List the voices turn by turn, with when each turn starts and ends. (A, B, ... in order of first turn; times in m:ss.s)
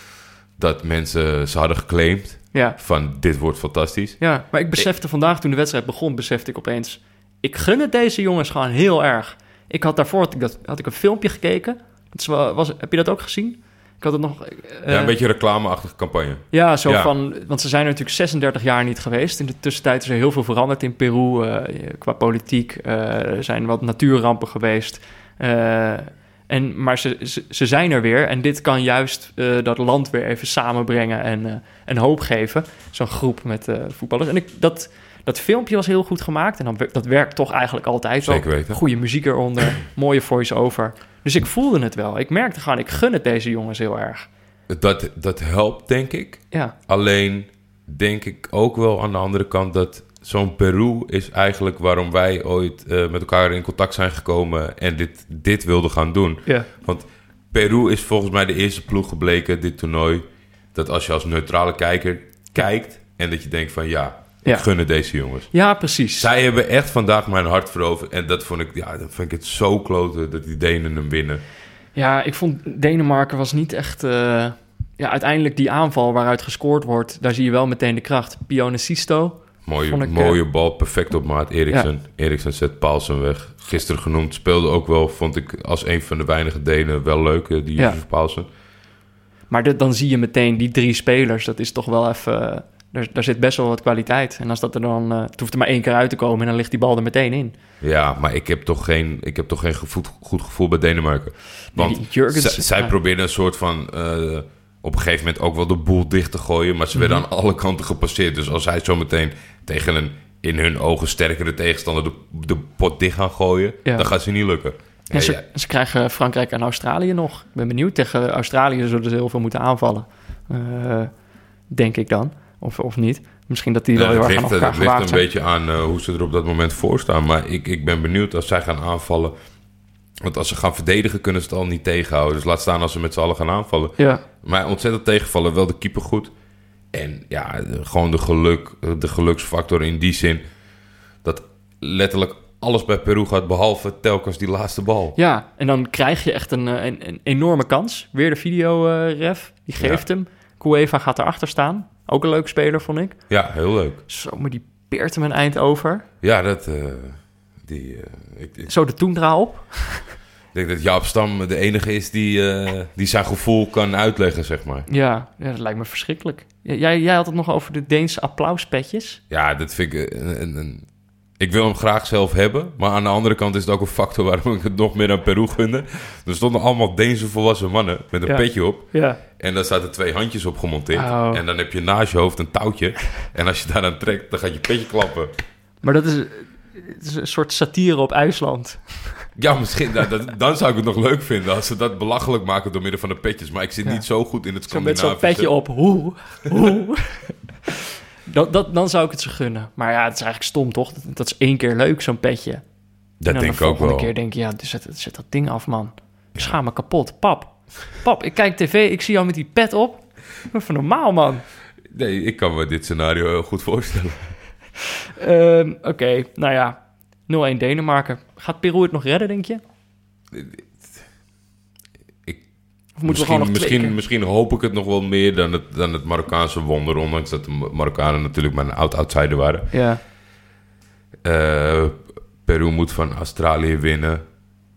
0:00.6-0:04.2 A
0:04.2-0:15.1 B
0:14.9-0:17.1 A
0:16.5-0:44.3 B
0:38.2-0:38.8 A
0:44.7-1:05.5 A
1:05.5-1:06.3 B
1:06.2-1:11.4 A
1:11.9-1:20.4 B
1:19.6-1:28.5 A
1:29.5-1:37.5 B
1:37.8-1:55.4 A
1:41.7-1:42.9 B
1:46.9-1:47.2 B
1:55.1-2:01.1 B
2:01.7-2:05.2 B
2:03.9-2:09.3 A
2:10.2-2:16.3 A
2:14.0-2:14.2 B
2:16.9-2:20.4 A
2:21.2-2:25.2 A
2:25.2-2:33.2 B
2:29.8-2:30.0 A
2:33.3-2:34.0 A
2:34.1-2:36.0 B
2:36.2-2:38.7 A
2:38.7-2:40.2 B
2:40.5-2:44.9 A
2:44.9-2:49.2 B
2:49.3-2:50.8 A
2:51.4-3:05.3 A
2:58.2-2:59.2 B
3:00.9-3:01.4 B
3:05.8-3:09.3 B
3:09.4-3:15.5 A
3:14.7-3:17.7 B
3:18.3-3:22.6 B
3:23.2-3:24.1 A
3:23.3-3:31.4 B
3:31.9-3:34.3 A
3:35.2-3:39.6 B
3:40.3-3:41.0 A
3:43.0-3:44.0 B
3:43.0-3:49.7 A
3:49.7-3:50.0 B
3:51.2-3:54.2 A